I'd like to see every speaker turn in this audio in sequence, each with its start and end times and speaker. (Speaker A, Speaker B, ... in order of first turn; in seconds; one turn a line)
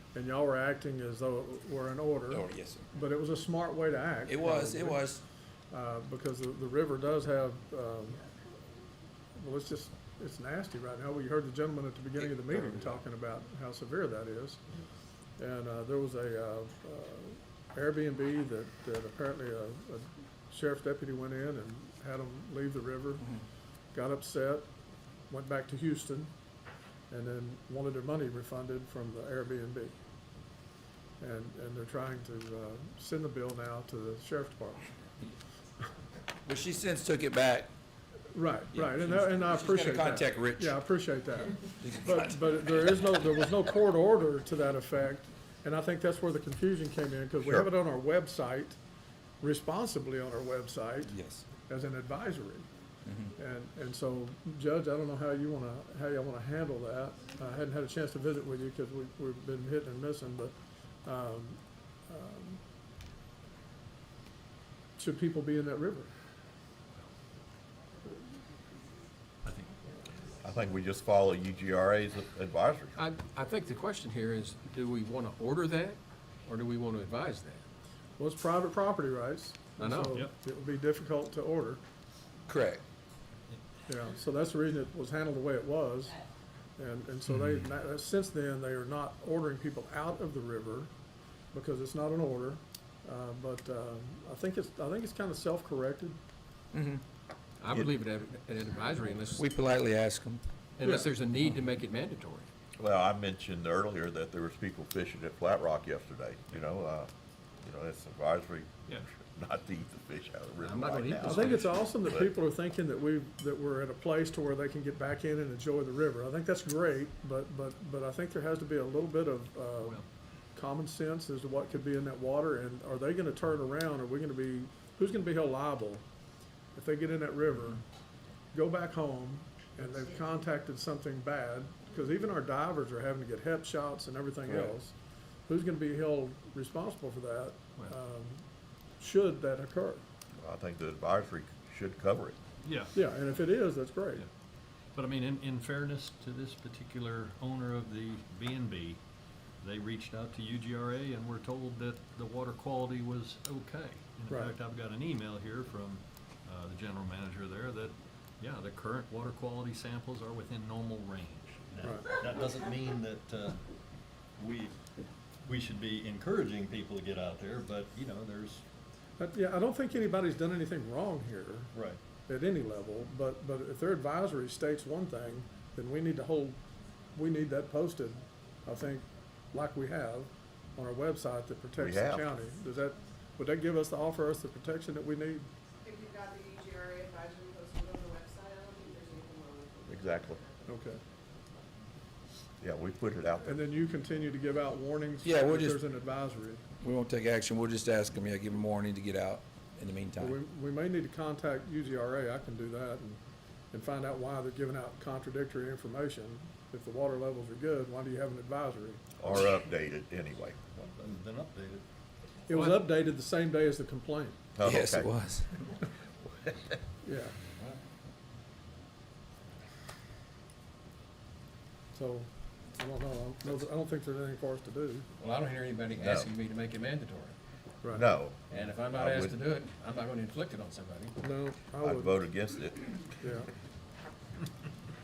Speaker A: 0.1-5.0
Speaker B: 2.3-2.9
Speaker B: 4.3-5.2
Speaker A: 5.7-8.2
Speaker A: 9.3-14.6
Speaker B: 12.2-12.9
Speaker A: 15.4-23.3
Speaker A: 23.9-24.7
Speaker A: 25.3-26.3
Speaker A: 27.1-30.0
Speaker A: 31.2-34.9
Speaker B: 36.4-37.7
Speaker A: 38.3-48.8
Speaker B: 38.7-40.8
Speaker B: 41.8-42.9
Speaker C: 47.4-47.7
Speaker A: 49.4-51.1
Speaker B: 51.1-51.4
Speaker A: 51.7-52.7
Speaker B: 53.0-53.3
Speaker A: 53.4-60.5
Speaker A: 61.0-62.6
Speaker A: 65.0-66.1
Speaker D: 69.4-69.8
Speaker C: 70.4-73.0
Speaker E: 73.0-77.6
Speaker A: 78.2-81.8
Speaker E: 79.8-80.2
Speaker B: 82.5-82.8
Speaker A: 83.9-86.2
Speaker A: 86.8-90.9
Speaker A: 91.5-96.2
Speaker B: 96.7-97.0
Speaker E: 97.6-99.4
Speaker B: 99.3-100.4
Speaker E: 100.8-102.5
Speaker C: 102.8-107.1
Speaker C: 107.6-112.3
Speaker E: 110.6-111.8
Speaker A: 111.2-126.0
Speaker D: 119.8-120.1
Speaker A: 126.7-127.8
Speaker A: 128.5-134.9
Speaker A: 135.5-138.4
Speaker A: 139.0-140.0
Speaker C: 140.4-142.4
Speaker D: 142.6-142.9
Speaker A: 142.9-144.2
Speaker D: 144.9-149.0
Speaker D: 149.6-163.6
Speaker A: 154.3-154.5
Speaker A: 161.8-162.1
Speaker D: 164.4-164.8
Speaker D: 165.4-168.6
Speaker A: 169.2-171.7
Speaker D: 171.7-172.0
Speaker A: 172.2-176.6
Speaker A: 177.1-185.5
Speaker C: 181.8-182.3
Speaker F: 185.8-190.7
Speaker C: 189.9-190.4
Speaker A: 190.7-191.0
Speaker C: 192.6-193.6
Speaker A: 193.4-196.6
Speaker B: 195.2-195.8
Speaker B: 196.8-200.4
Speaker A: 200.2-203.2
Speaker A: 203.7-209.0
Speaker C: 209.2-210.6
Speaker D: 210.6-211.8
Speaker A: 212.5-214.4
Speaker E: 212.5-212.8
Speaker C: 214.5-215.1
Speaker B: 214.6-215.6
Speaker A: 217.0-217.4
Speaker A: 221.9-225.1
Speaker E: 225.2-227.4
Speaker C: 225.9-226.3
Speaker A: 227.8-228.1
Speaker C: 227.9-229.4
Speaker E: 228.5-231.2
Speaker A: 231.2-232.2
Speaker C: 231.8-233.1
Speaker A: 233.2-233.5